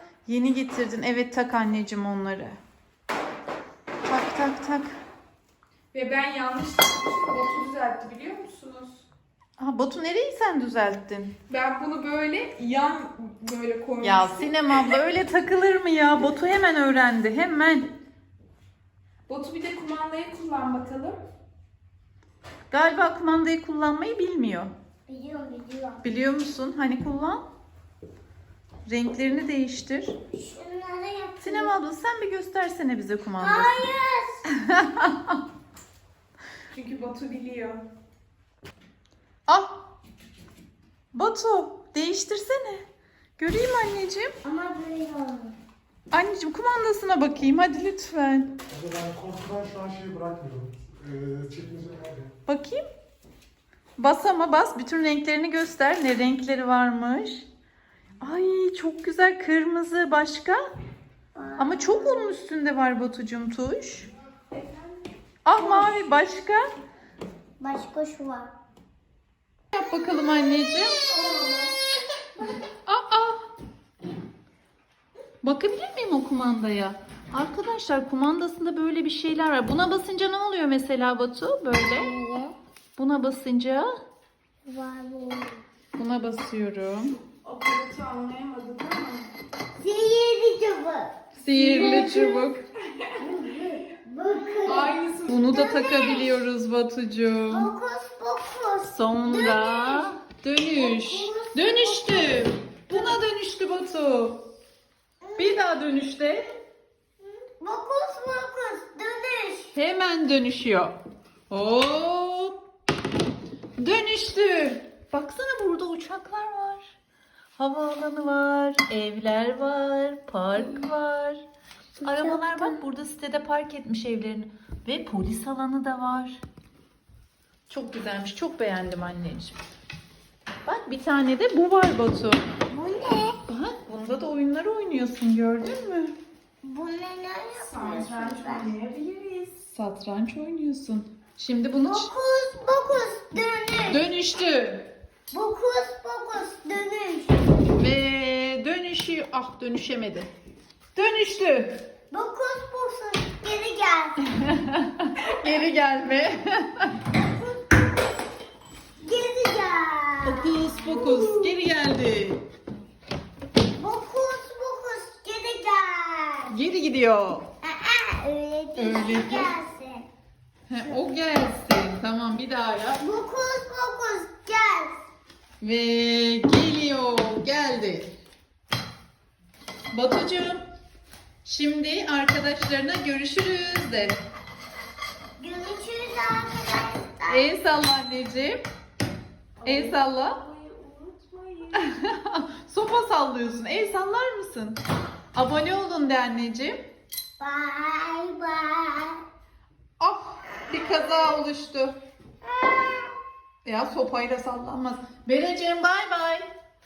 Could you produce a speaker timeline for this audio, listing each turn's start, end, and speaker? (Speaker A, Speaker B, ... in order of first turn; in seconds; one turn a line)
Speaker A: 0.2-2.6
Speaker A: 4.0-5.0
Speaker B: 5.9-9.0
Speaker A: 9.6-11.3
Speaker B: 11.5-14.6
Speaker A: 14.0-17.9
Speaker B: 19.3-21.2
Speaker A: 22.7-24.7
Speaker C: 25.1-26.0
Speaker A: 26.0-27.4
Speaker A: 28.8-30.1
Speaker C: 30.3-31.8
Speaker A: 31.4-33.8
Speaker C: 33.4-34.4
Speaker A: 34.5-35.4
Speaker B: 36.7-37.8
Speaker A: 39.5-39.8
Speaker A: 41.1-42.8
Speaker A: 43.4-44.3
Speaker C: 44.4-45.5
Speaker A: 46.1-48.5
Speaker D: 48.8-52.3
Speaker A: 52.5-52.8
Speaker A: 54.0-57.5
Speaker A: 58.2-60.6
Speaker C: 61.3-62.4
Speaker A: 61.6-64.1
Speaker A: 65.4-66.7
Speaker C: 65.6-66.1
Speaker C: 67.6-68.5
Speaker A: 69.7-71.0
Speaker C: 70.0-71.8
Speaker A: 72.8-73.4
Speaker A: 75.4-82.1
Speaker C: 81.9-82.5
Speaker A: 83.0-83.9
Speaker C: 84.6-85.6
Speaker A: 86.0-87.2
Speaker B: 87.4-89.3
Speaker C: 89.8-92.5
Speaker A: 91.4-92.6
Speaker B: 91.5-93.1
Speaker C: 93.2-95.0
Speaker B: 94.6-95.9
Speaker A: 95.3-97.7
Speaker C: 95.5-96.4
Speaker C: 97.5-100.1
Speaker A: 98.9-104.4
Speaker C: 100.7-103.1
Speaker C: 105.2-105.6
Speaker A: 105.4-106.5
Speaker C: 107.4-109.7
Speaker A: 109.7-110.9
Speaker A: 111.5-112.6
Speaker A: 113.8-116.9
Speaker A: 117.5-121.4
Speaker C: 120.6-120.8
Speaker C: 122.0-122.8
Speaker A: 122.0-126.4
Speaker A: 127.7-129.6
Speaker A: 130.6-132.4
Speaker C: 132.7-133.4
Speaker A: 133.5-136.1
Speaker C: 136.6-138.7
Speaker B: 137.5-139.5
Speaker A: 139.7-142.1
Speaker C: 141.8-144.0
Speaker A: 143.9-144.9
Speaker C: 145.3-147.4
Speaker A: 147.8-150.3
Speaker A: 150.9-151.8
Speaker C: 152.1-154.2
Speaker A: 154.2-157.0
Speaker C: 157.1-157.9
Speaker C: 159.0-161.5
Speaker A: 160.2-162.4
Speaker C: 163.8-166.5
Speaker A: 166.5-167.5
Speaker C: 167.6-170.1
Speaker A: 168.8-169.5
Speaker A: 170.7-173.0
Speaker C: 173.0-174.9
Speaker A: 175.6-178.1
Speaker A: 179.9-180.6
Speaker A: 181.4-184.2
Speaker C: 185.4-187.5
Speaker A: 187.3-188.6
Speaker B: 189.6-191.9
Speaker A: 189.6-190.4
Speaker A: 191.7-194.8
Speaker A: 195.3-196.8
Speaker C: 197.4-199.2
Speaker A: 200.0-202.0
Speaker C: 202.4-203.2
Speaker A: 203.6-206.4